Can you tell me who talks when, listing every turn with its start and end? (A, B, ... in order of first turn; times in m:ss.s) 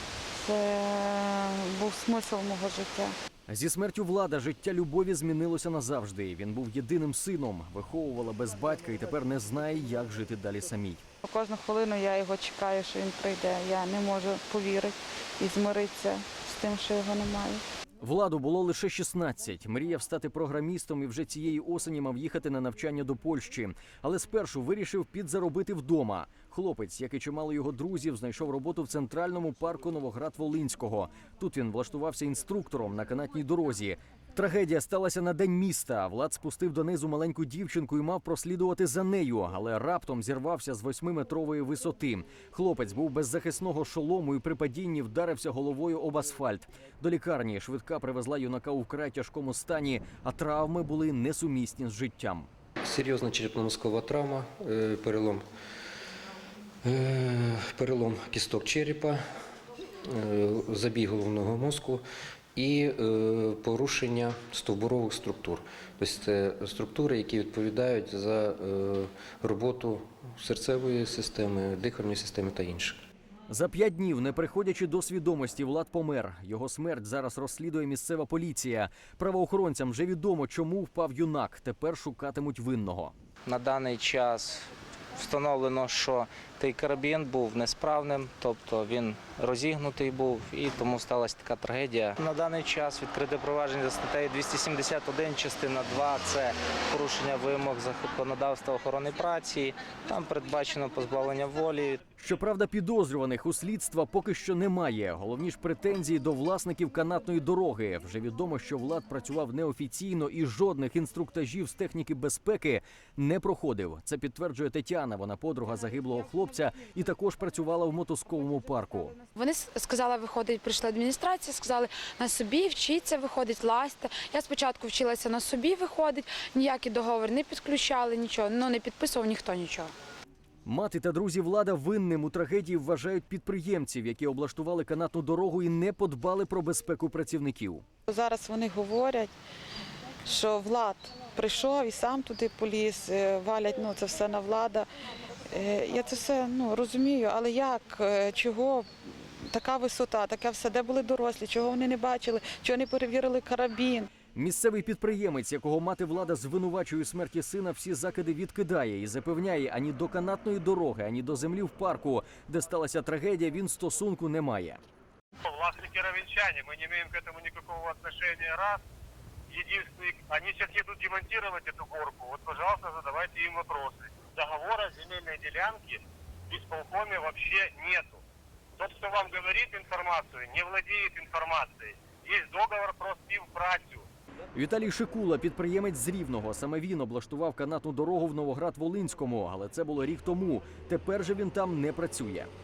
0:00.4-0:03.1 A
0:03.5-0:11.0 B
0:11.2-0:17.6 A
0:18.0-0:52.5 B
0:52.8-0:55.4 C
0:56.8-0:59.2 C
1:00.1-1:02.0 C
1:02.6-1:13.0 C
1:13.5-1:23.1 B
1:23.4-1:24.6 D
1:25.2-1:42.0 D
1:42.2-1:59.2 B
1:59.4-2:09.9 E
2:10.7-2:17.8 B
2:18.1-2:19.3 A
2:20.2-2:24.9 A
2:25.5-2:28.9 A
2:29.4-2:34.1 A
2:34.3-2:44.8 B
2:45.4-2:48.8 F
2:49.5-2:58.2 F
2:58.8-3:04.1 F
3:04.5-3:12.5 B